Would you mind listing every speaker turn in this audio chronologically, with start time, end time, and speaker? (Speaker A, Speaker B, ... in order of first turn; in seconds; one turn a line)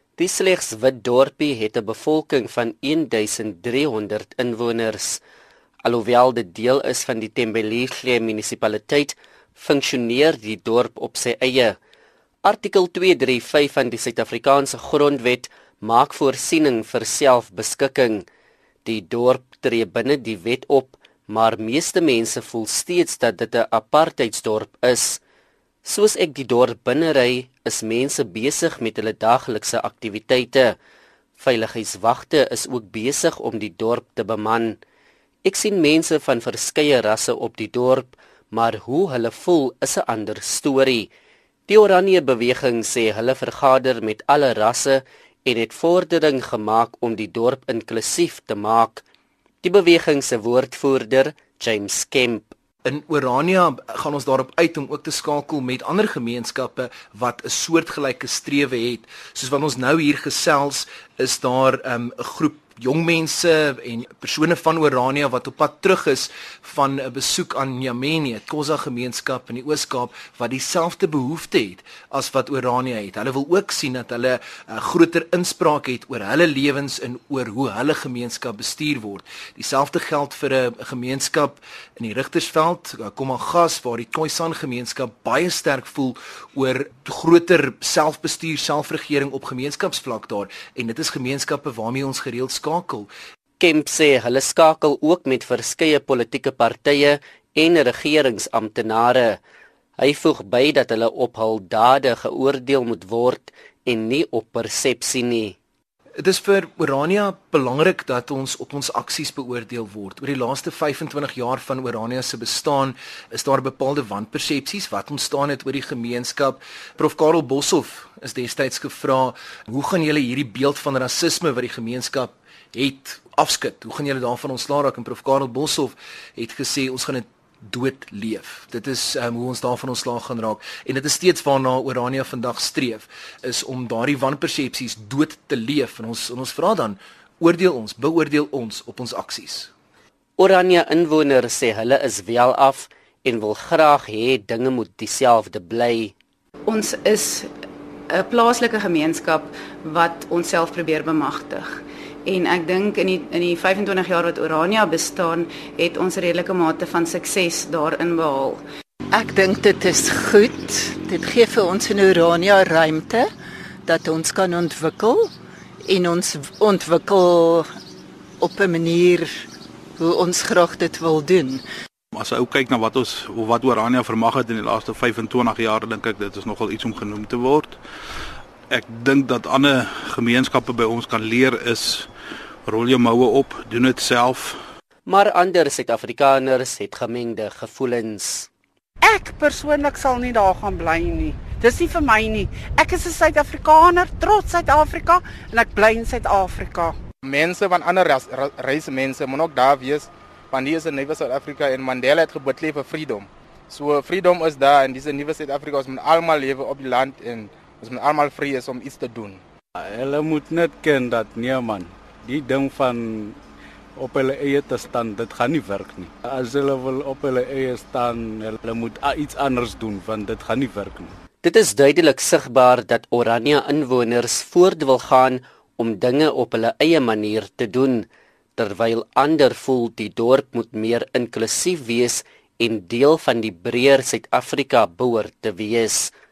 Speaker A: 0.2-5.2
Speaker A: 5.8-11.8
Speaker A: 12.4-18.2
Speaker A: 18.8-25.2
Speaker A: 25.8-30.7
Speaker A: 31.4-34.8
Speaker A: 35.4-41.1
Speaker A: 41.7-49.0
Speaker A: 49.6-52.5
Speaker B: 52.8-93.1
Speaker A: 93.6-99.4
Speaker A: 100.0-105.6
Speaker B: 106.2-139.7
Speaker A: 140.4-146.1
Speaker C: 146.7-147.5
Speaker C: 148.1-151.7
Speaker C: 152.2-158.6
Speaker D: 159.1-163.3
Speaker D: 163.8-165.3
Speaker D: 165.8-167.7
Speaker D: 168.4-169.4
Speaker D: 170.0-171.6
Speaker E: 172.1-177.8
Speaker E: 178.7-182.1
Speaker E: 182.7-184.6
Speaker A: 185.1-188.5
Speaker F: 189.0-197.0
Speaker G: 197.2-209.4
Speaker H: 209.8-213.4
Speaker H: 213.9-221.1
Speaker A: 221.4-228.1
Speaker A: 228.6-236.1